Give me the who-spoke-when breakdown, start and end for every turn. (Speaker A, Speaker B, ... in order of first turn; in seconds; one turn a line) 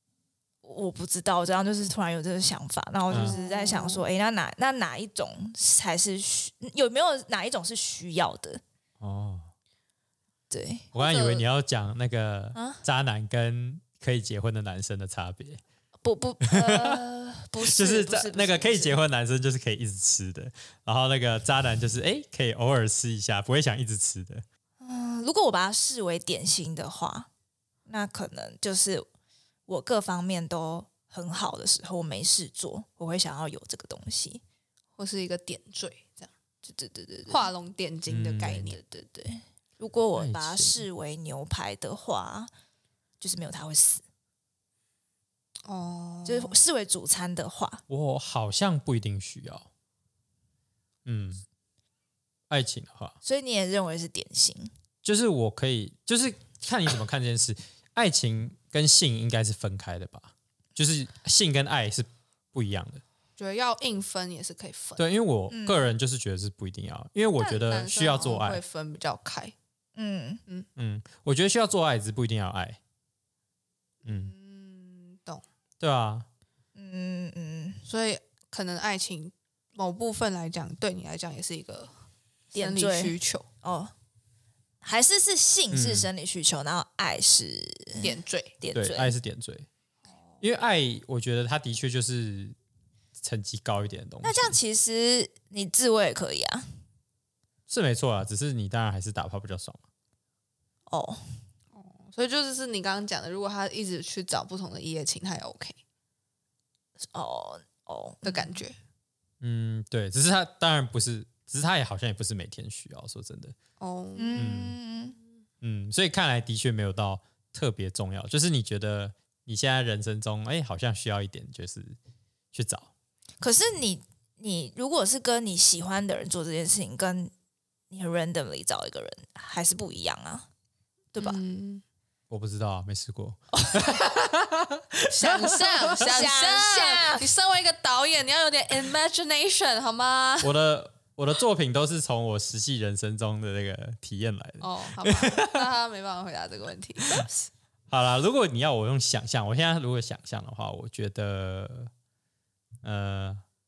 Speaker A: 0.6-8.6
Speaker B: 3.1-3.4
Speaker C: 3.1-4.0
Speaker B: 9.0-9.5
Speaker A: 10.5-10.9
Speaker B: 10.9-15.6
Speaker C: 11.0-11.4
Speaker A: 12.6-12.8
Speaker A: 16.0-19.0
Speaker B: 16.4-17.0
Speaker B: 17.6-24.4
Speaker A: 24.8-27.3
Speaker A: 27.9-29.1
Speaker A: 29.7-34.4
Speaker C: 35.0-36.3
Speaker A: 36.6-37.5
Speaker C: 37.3-38.9
Speaker B: 38.1-38.8
Speaker A: 38.8-42.5
Speaker B: 40.2-40.8
Speaker A: 43.2-44.0
Speaker C: 45.6-46.6
Speaker A: 46.3-47.8
Speaker B: 47.9-49.7
Speaker B: 51.0-51.4
Speaker B: 52.5-53.2
Speaker A: 53.2-54.7
Speaker B: 55.0-63.0
Speaker C: 63.4-65.0
Speaker B: 65.0-68.6
Speaker A: 65.5-65.9
Speaker C: 67.4-69.5
Speaker A: 70.0-70.4
Speaker B: 70.8-72.8
Speaker C: 74.0-75.4
Speaker B: 74.1-74.3
Speaker B: 75.8-76.3
Speaker A: 76.8-77.8
Speaker C: 77.9-81.9
Speaker C: 82.5-83.5
Speaker A: 82.5-83.9
Speaker A: 84.8-89.2
Speaker B: 85.7-86.1
Speaker C: 88.0-88.6
Speaker B: 88.8-89.7
Speaker B: 90.4-92.6
Speaker B: 93.2-94.6
Speaker A: 94.2-96.7
Speaker B: 97.7-99.8
Speaker A: 100.9-101.2
Speaker C: 101.8-105.8
Speaker A: 107.1-108.6
Speaker C: 108.2-108.8
Speaker B: 109.4-113.5
Speaker C: 113.8-114.6
Speaker A: 114.2-115.2
Speaker B: 114.4-114.8
Speaker B: 115.6-122.0
Speaker B: 122.5-122.9
Speaker A: 123.4-127.3
Speaker A: 127.9-130.5
Speaker A: 131.1-131.4
Speaker C: 131.2-131.8
Speaker B: 132.3-135.9
Speaker C: 135.1-140.5
Speaker A: 135.9-137.2
Speaker B: 140.4-145.6
Speaker C: 144.6-147.5
Speaker B: 147.9-151.9
Speaker B: 152.8-153.4